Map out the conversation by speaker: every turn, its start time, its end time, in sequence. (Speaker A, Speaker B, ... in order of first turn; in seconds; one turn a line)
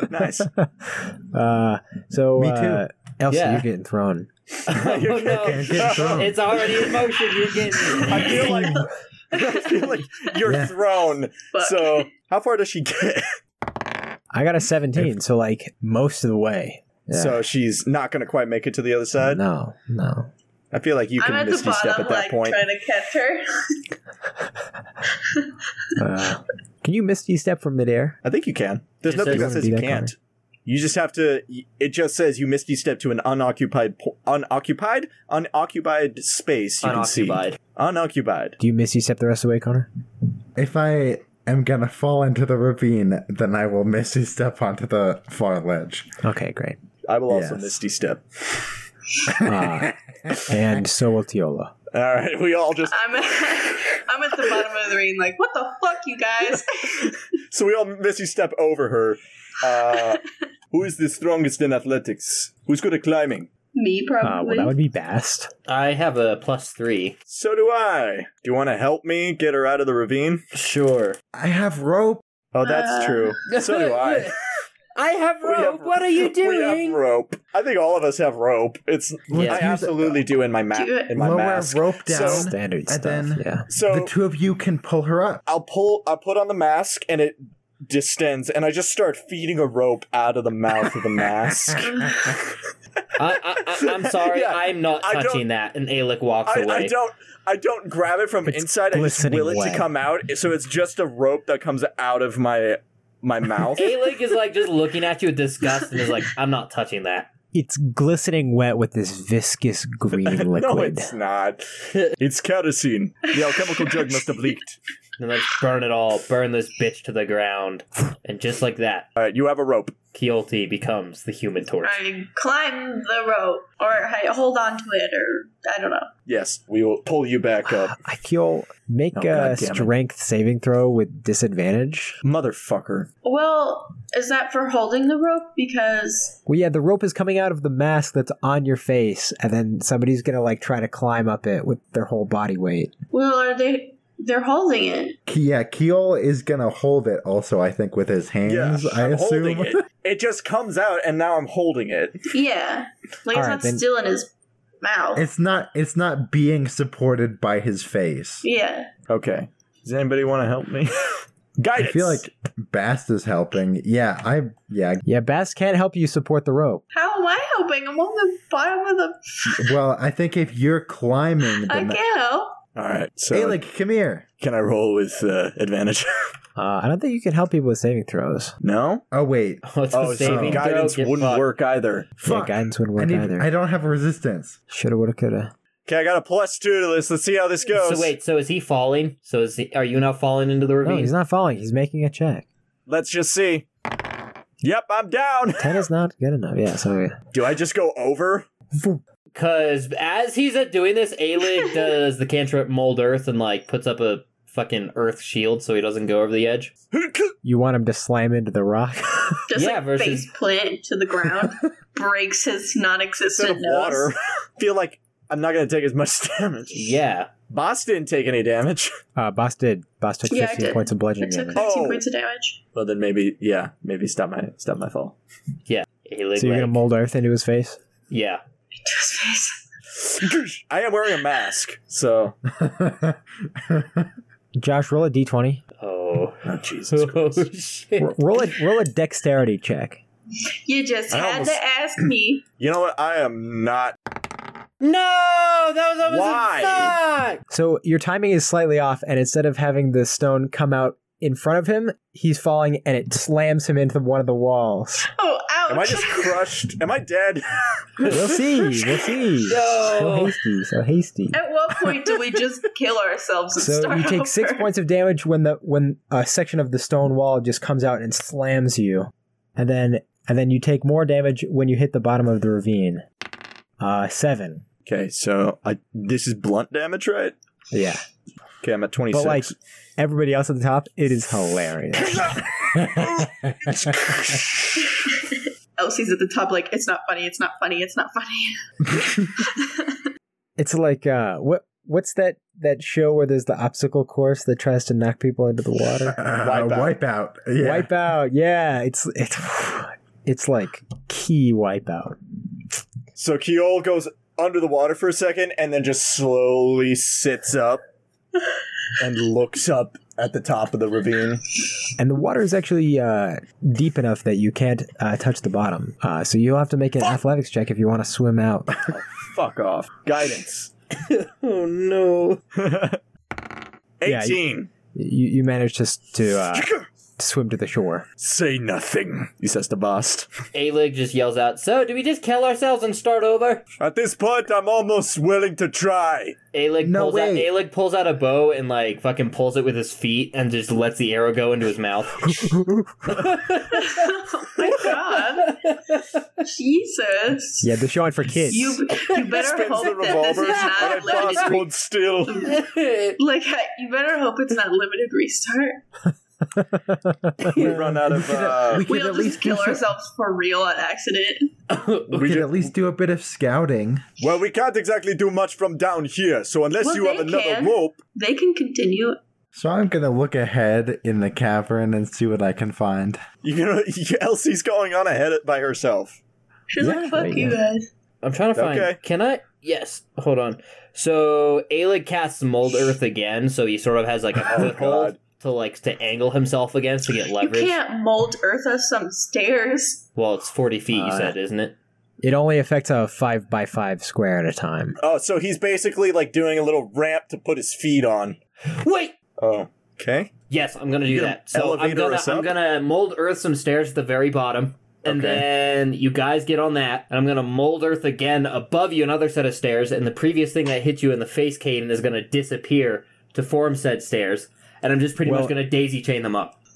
Speaker A: 0.1-0.5
Speaker B: 0.4-4.3
Speaker C: 2.4-2.9
Speaker D: 3.3-3.7
Speaker A: 4.5-6.9
Speaker D: 4.7-8.7
Speaker C: 5.4-6.5
Speaker E: 7.7-10.7
Speaker A: 8.0-13.4
Speaker C: 10.4-10.7
Speaker E: 11.5-12.1
Speaker B: 14.3-17.4
Speaker A: 17.1-19.4
Speaker B: 19.2-20.3
Speaker A: 20.7-22.6
Speaker E: 21.2-23.8
Speaker E: 25.2-25.6
Speaker B: 26.0-28.2
Speaker A: 28.2-38.6
Speaker D: 29.1-29.6
Speaker B: 29.3-30.1
Speaker D: 36.8-37.6
Speaker B: 38.6-39.9
Speaker C: 40.6-46.1
Speaker B: 46.2-46.8
Speaker A: 47.1-48.7
Speaker C: 47.3-47.8
Speaker B: 49.4-51.7
Speaker A: 51.9-53.6
Speaker E: 52.9-57.2
Speaker A: 57.5-63.5
Speaker E: 59.8-60.2
Speaker E: 63.7-64.8
Speaker B: 64.2-65.5
Speaker D: 65.7-67.2
Speaker A: 67.3-70.4
Speaker D: 70.5-71.2
Speaker C: 71.3-72.2
Speaker A: 72.5-74.4
Speaker E: 72.6-73.4
Speaker D: 73.5-74.4
Speaker D: 75.0-77.0
Speaker A: 75.4-82.5
Speaker C: 79.3-80.2
Speaker D: 79.3-79.6
Speaker E: 80.7-81.2
Speaker C: 81.1-85.4
Speaker B: 82.1-83.7
Speaker A: 83.7-84.1
Speaker A: 85.5-92.6
Speaker E: 91.9-92.2
Speaker D: 93.2-97.0
Speaker A: 93.8-95.4
Speaker A: 96.5-104.0
Speaker B: 98.5-99.9
Speaker D: 103.8-107.3
Speaker B: 107.5-111.1
Speaker A: 110.1-114.8
Speaker E: 113.3-114.2
Speaker D: 115.2-119.1
Speaker A: 119.2-120.0
Speaker D: 120.1-122.0
Speaker E: 121.8-126.1
Speaker A: 126.3-128.0
Speaker B: 127.7-132.2
Speaker A: 129.2-129.9
Speaker A: 132.2-133.1
Speaker E: 133.2-136.4
Speaker B: 136.5-142.9
Speaker E: 143.1-145.2
Speaker C: 145.3-149.8
Speaker A: 148.5-152.3
Speaker E: 152.3-155.3
Speaker B: 153.3-153.8
Speaker C: 155.2-158.4
Speaker E: 158.4-158.9
Speaker A: 159.1-162.3
Speaker C: 161.8-165.1
Speaker B: 165.1-166.8
Speaker E: 166.9-169.7
Speaker C: 169.5-172.0
Speaker E: 171.5-172.6
Speaker A: 172.8-173.6
Speaker C: 173.3-174.2
Speaker A: 174.4-176.2
Speaker B: 176.6-178.5
Speaker A: 178.6-179.1
Speaker C: 179.1-179.6
Speaker D: 179.7-181.5
Speaker A: 179.9-182.1
Speaker C: 180.2-180.7
Speaker C: 182.2-184.6
Speaker B: 182.2-183.5
Speaker B: 184.7-185.5
Speaker A: 185.9-188.2
Speaker D: 187.7-191.1
Speaker B: 190.8-192.5
Speaker A: 192.9-193.7
Speaker A: 194.6-195.7
Speaker B: 195.6-197.2
Speaker A: 197.3-198.5
Speaker B: 198.8-199.0
Speaker D: 199.3-206.7
Speaker A: 206.9-207.3
Speaker B: 207.4-209.4
Speaker E: 209.5-214.1
Speaker D: 209.5-210.3
Speaker A: 213.3-216.9
Speaker D: 216.7-217.3
Speaker A: 217.5-218.9
Speaker B: 219.2-221.7
Speaker E: 220.3-222.6
Speaker A: 221.6-222.1
Speaker A: 222.7-225.2
Speaker D: 225.7-226.8
Speaker B: 226.4-227.8
Speaker D: 228.1-228.4
Speaker E: 228.8-229.6
Speaker A: 230.0-232.4
Speaker C: 232.6-234.1
Speaker B: 234.6-235.6
Speaker D: 235.8-238.2
Speaker A: 236.4-237.5
Speaker B: 238.0-240.0
Speaker E: 240.7-242.4
Speaker A: 241.1-241.6
Speaker A: 242.6-244.0
Speaker D: 244.8-247.4
Speaker A: 246.1-247.0
Speaker B: 247.5-255.1
Speaker E: 255.2-256.5
Speaker A: 255.7-258.4
Speaker B: 258.1-261.4
Speaker D: 259.4-260.4
Speaker E: 261.3-264.7
Speaker B: 263.6-273.0
Speaker B: 273.8-274.6
Speaker A: 274.9-277.4
Speaker B: 277.7-278.0
Speaker A: 278.6-279.5
Speaker B: 279.1-284.0
Speaker A: 282.1-284.5
Speaker E: 284.9-288.6
Speaker C: 288.9-289.3
Speaker E: 289.2-290.0
Speaker B: 290.6-296.2
Speaker C: 296.1-297.9
Speaker A: 296.4-297.0
Speaker B: 297.6-302.2
Speaker A: 303.1-307.8
Speaker A: 309.0-311.5
Speaker B: 312.0-318.8
Speaker A: 318.9-320.7
Speaker D: 321.0-322.4
Speaker A: 322.6-323.0
Speaker A: 324.0-324.7
Speaker B: 324.1-324.4
Speaker B: 324.9-328.1
Speaker A: 326.5-326.9
Speaker A: 328.2-330.3
Speaker D: 330.5-333.6
Speaker A: 333.8-336.4
Speaker D: 336.5-342.5
Speaker C: 336.8-337.5
Speaker C: 342.4-343.3
Speaker D: 343.1-344.1
Speaker E: 343.6-345.6
Speaker D: 344.8-346.2
Speaker E: 346.4-347.7
Speaker B: 347.6-348.8
Speaker E: 348.5-351.7
Speaker D: 348.9-351.5
Speaker A: 349.3-352.6
Speaker E: 352.3-352.6
Speaker D: 352.4-353.2
Speaker E: 353.2-355.8
Speaker B: 356.6-357.7
Speaker D: 357.4-358.0
Speaker A: 357.5-358.9
Speaker C: 358.1-359.8
Speaker E: 358.8-361.5
Speaker D: 361.7-362.4
Speaker A: 362.1-362.7
Speaker C: 362.1-364.0
Speaker A: 364.2-368.0
Speaker E: 366.8-369.2
Speaker C: 369.5-373.2
Speaker A: 373.4-376.2
Speaker E: 376.7-377.9
Speaker C: 376.8-377.1
Speaker B: 376.8-377.6
Speaker D: 378.2-387.8
Speaker A: 378.6-379.0
Speaker A: 384.4-385.2
Speaker E: 387.4-390.0
Speaker D: 390.2-391.8
Speaker B: 390.9-391.4
Speaker B: 392.2-395.0
Speaker A: 395.0-398.4
Speaker D: 398.7-399.1
Speaker A: 399.4-400.3
Speaker D: 400.5-416.6
Speaker A: 401.1-402.5
Speaker A: 405.1-405.4
Speaker B: 415.2-415.6